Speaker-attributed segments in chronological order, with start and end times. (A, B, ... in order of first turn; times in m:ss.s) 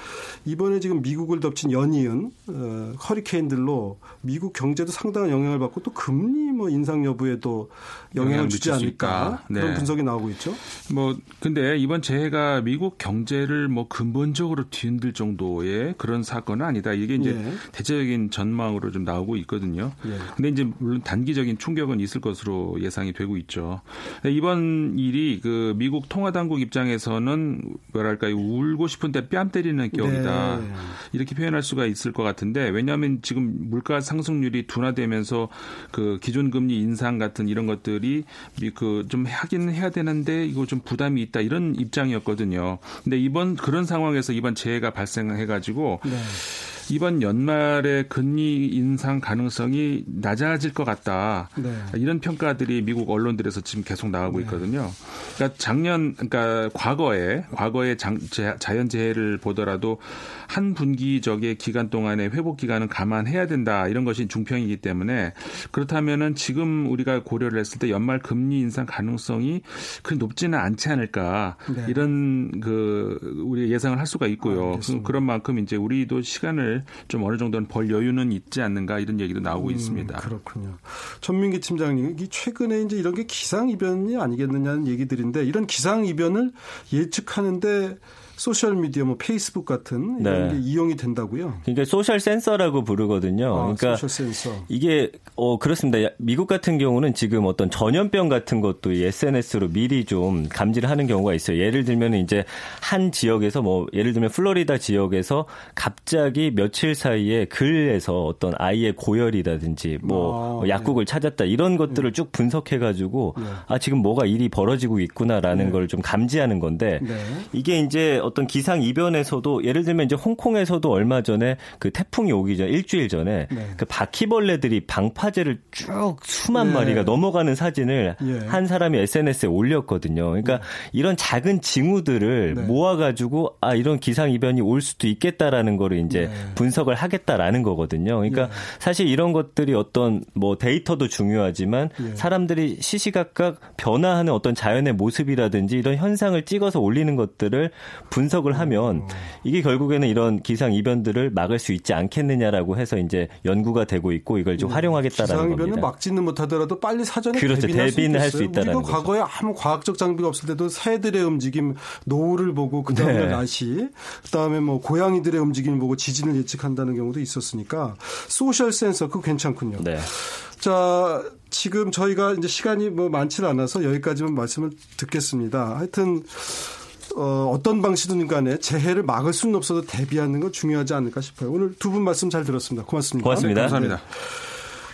0:00.4-0:10.6 A
0:08.2-0:10.0 B
0:10.8-1:20.3 B
0:17.2-0:17.6 A
0:20.0-0:20.3 A
0:29.9-0:31.0 A
0:46.0-0:46.4 A
0:51.6-0:52.0 A
0:54.3-0:54.6 A
1:11.7-1:12.0 A
1:14.4-1:15.2 A
1:19.6-1:31.6 A
1:30.2-1:30.6 C
1:31.7-1:34.1 C
1:33.5-1:34.7 A
1:34.7-2:35.9 C
1:50.0-1:51.0 A
1:53.4-1:53.6 A
1:55.5-1:55.8 A
1:57.0-1:57.5 A
2:03.5-2:03.8 A
2:06.5-2:07.2 A
2:08.2-2:08.6 A
2:10.4-2:10.7 A
2:12.5-2:12.8 A
2:16.1-2:16.6 A
2:18.3-2:18.7 A
2:22.0-2:22.3 A
2:28.5-2:29.3 A
2:34.6-3:04.4 A
2:37.3-2:39.0 C
2:42.9-2:43.4 C
2:49.8-2:50.1 C
3:03.2-3:03.8 C
3:03.3-3:04.0 B